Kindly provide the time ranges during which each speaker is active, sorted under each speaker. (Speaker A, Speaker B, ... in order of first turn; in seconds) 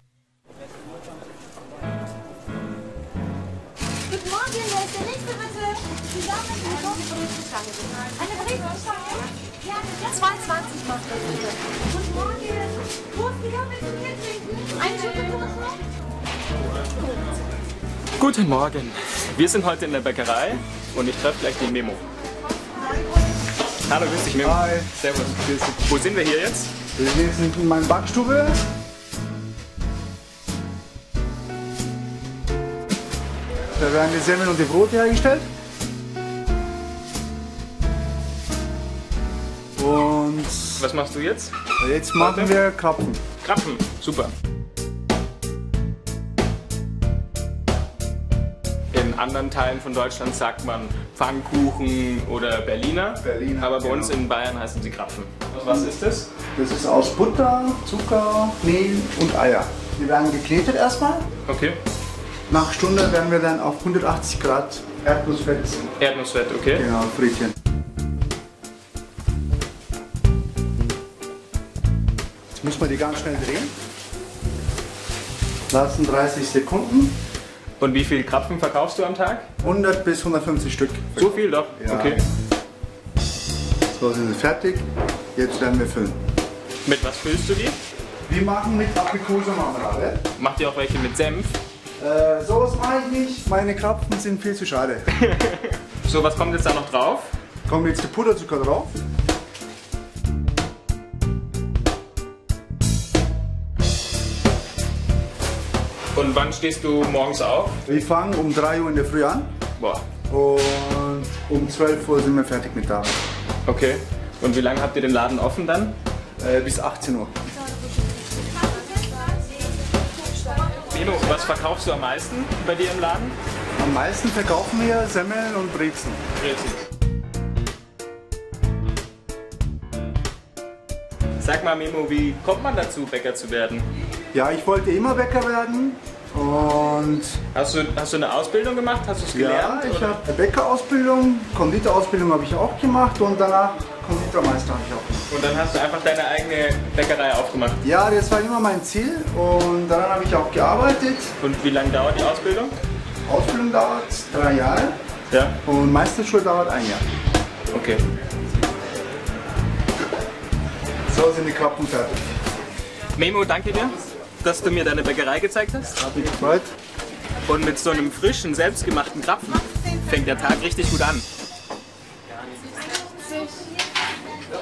Speaker A: 4.3-5.8, 6.5-7.0, 8.2-8.9, 10.1-11.3, 12.2-12.7, 13.4-15.5
Speaker B: 18.2-22.0, 23.9-26.7, 40.8-41.5, 42.2-42.6, 43.4-44.3, 48.9-56.3, 61.5-61.8, 66.0-66.9, 77.8-79.5, 81.2-82.2, 86.8-87.8, 90.4-91.6, 95.1-97.3, 106.1-107.8, 109.8-110.0, 113.7-116.0, 120.9-123.4, 126.4-126.8, 131.4-133.9, 137.5-140.2, 145.3-147.8, 151.4-152.8, 155.3-155.6, 157.7-158.0, 163.2-166.0, 167.5-171.3
Speaker C: 24.4-25.0, 27.0-28.6, 33.8-35.5, 39.8-40.9, 41.8-43.2, 53.2-54.2, 56.6-61.3, 62.5-65.9, 66.8-67.5, 72.6-73.7, 75.7-77.2, 79.6-82.2, 83.9-86.2, 88.3-90.2, 92.0-95.1, 97.7-99.0, 107.9-109.5, 110.3-113.1, 116.4-117.3, 123.8-126.2, 134.3-137.4, 139.3-145.3, 147.8-151.3, 153.3-155.0, 155.6-157.0, 161.1-162.2, 166.0-166.7